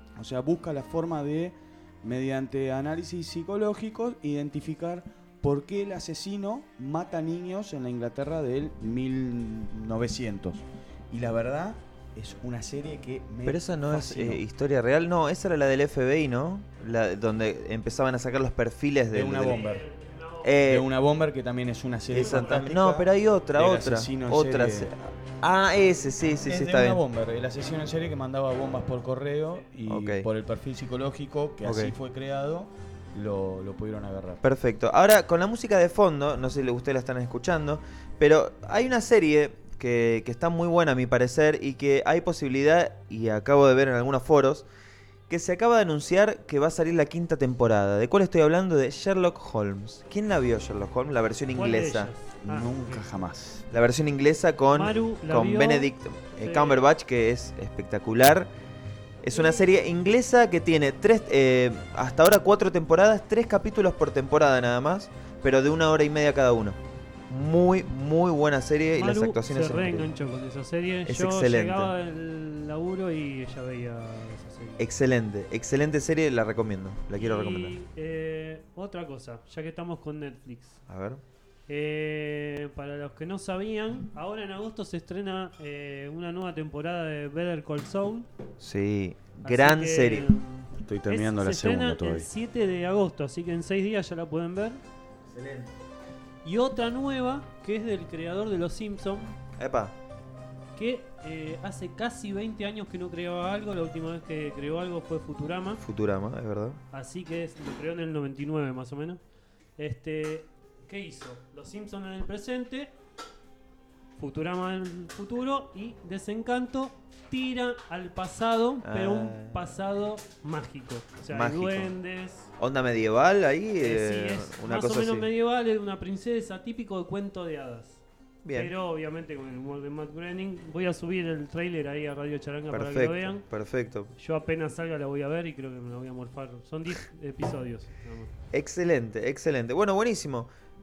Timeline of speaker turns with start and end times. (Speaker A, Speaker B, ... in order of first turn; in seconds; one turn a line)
Speaker A: 0.1-14.4
Speaker B: 13.4-19.6
Speaker A: 19.1-19.8
Speaker C: 19.5-20.5
Speaker B: 20.4-20.9
Speaker A: 20.6-24.9
Speaker B: 22.1-27.0
Speaker A: 26.4-34.4
Speaker B: 29.9-30.3
Speaker B: 31.6-31.9
Speaker B: 34.4-44.6
Speaker B: 45.3-52.1
Speaker C: 51.5-53.0
Speaker A: 52.4-53.6
Speaker B: 53.7-58.5
Speaker C: 54.7-55.9
Speaker C: 56.4-56.8
Speaker B: 59.2-66.8
Speaker B: 67.3-70.1
Speaker C: 69.0-74.8
Speaker B: 71.0-71.9
Speaker B: 74.8-77.8
Speaker C: 77.2-80.8
Speaker B: 80.9-81.2
Speaker C: 81.7-88.3
Speaker B: 88.6-90.2
Speaker C: 89.4-94.8
Speaker A: 90.8-92.3
Speaker B: 95.3-95.7
Speaker C: 96.4-99.3
Speaker B: 99.6-99.9
Speaker C: 100.8-105.8
Speaker B: 105.8-106.8
Speaker C: 106.9-109.2
Speaker C: 109.8-112.9
Speaker C: 114.2-122.5
Speaker B: 118.8-119.7
Speaker B: 121.3-121.9
Speaker B: 122.6-125.3
Speaker C: 123.8-128.0
Speaker B: 128.4-128.7
Speaker C: 128.5-133.4
Speaker B: 132.7-134.1
Speaker C: 134.2-138.3
Speaker B: 138.5-140.5